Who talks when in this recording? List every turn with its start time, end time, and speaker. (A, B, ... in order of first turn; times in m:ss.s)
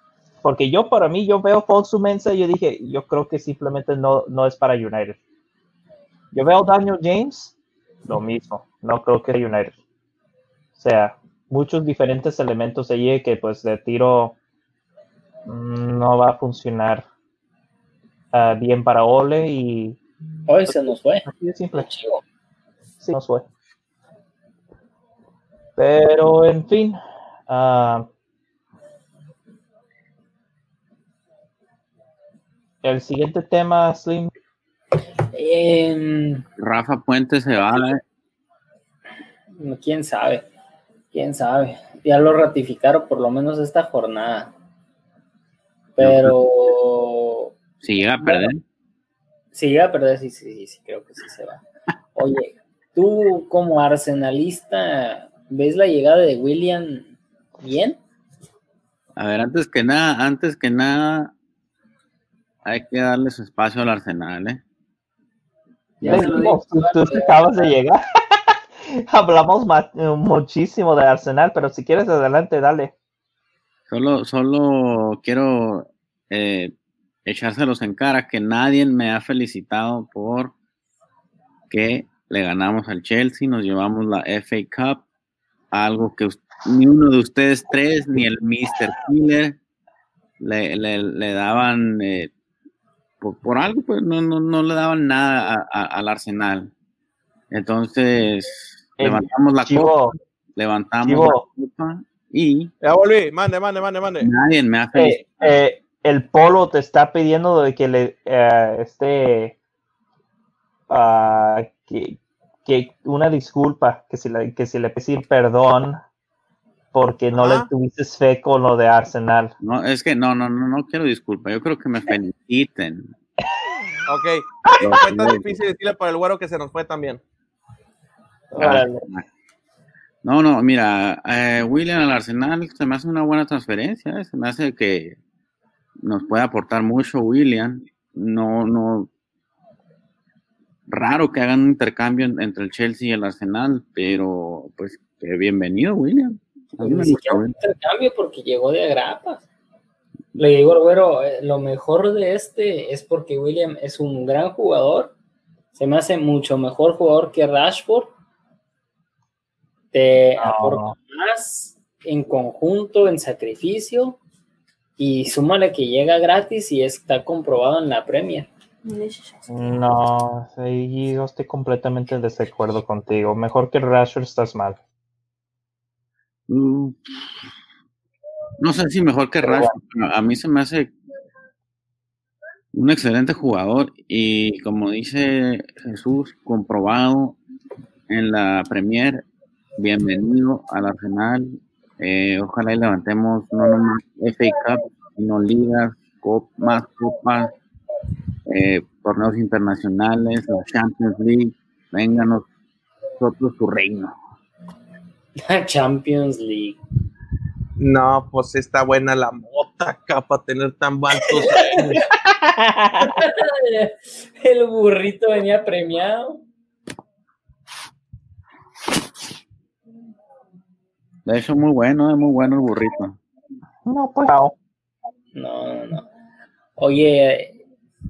0:00.4-0:05.2 A
0:06.3-0:07.5 A
0:08.0-0:09.8 A
0:10.8-0:14.4 A
0:15.4-0:17.0 A
0:18.3-0:20.0 A
0:20.5-0:22.2 B
0:20.7-0:21.9 A
0:23.0-0:23.4 A
0:25.8-0:28.1 A
0:32.8-0:34.3 A
0:35.3-0:36.4 B
0:36.6-0:38.0 C
0:39.6-0:40.5 B
0:41.1-0:44.5 B
0:46.0-0:47.5 B
0:46.0-0:46.3 C
0:47.8-0:48.6 C
0:48.2-0:48.5 B
0:49.5-0:51.6 B
0:52.1-0:58.0 B
0:59.2-1:01.3 C
1:02.6-1:04.6 C
1:06.0-1:07.7 B
1:06.0-1:12.9 A
1:06.0-1:06.4 C
1:13.9-1:16.7 C
1:17.2-1:20.5 C
1:21.7-1:25.0 C
1:25.7-1:29.6 C
1:30.4-1:32.3 C
1:33.2-1:36.7 C
1:37.5-1:40.0 C
1:39.0-1:40.1 A
1:40.6-1:42.7 C
1:41.0-1:41.4 A
1:42.8-1:44.3 D
1:44.2-1:45.6 C
1:44.9-1:49.6 A
1:50.9-1:56.0 A
1:56.9-1:59.5 A
1:57.3-1:57.7 D
1:59.6-2:03.1 C
2:04.1-2:07.2 D
2:04.7-2:05.0 A
2:04.8-2:05.5 C
2:08.5-2:09.0 A
2:08.6-2:09.2 C
2:10.2-2:15.2 C
2:16.0-2:19.1 C
2:20.9-2:27.6 C
2:26.8-2:29.4 B
2:30.4-2:35.1 B
2:35.7-2:38.1 B
2:39.9-2:44.2 B
2:40.4-2:40.9 A
2:45.0-2:48.5 B
2:49.5-2:54.8 A
2:56.5-2:57.2 C
2:58.6-3:00.9 C
2:59.4-2:59.7 A
3:02.7-3:07.4 C
3:08.1-3:09.2 C
3:09.8-3:17.5 C
3:18.4-3:22.4 C
3:23.2-3:24.2 C
3:25.4-3:26.8 B
3:27.8-3:32.0 D
3:31.3-3:32.0 B
3:32.1-3:33.2 A
3:33.0-3:36.4 B
3:41.2-3:43.2 C
3:43.8-3:44.5 A
3:45.3-3:46.1 B
3:46.8-3:47.6 B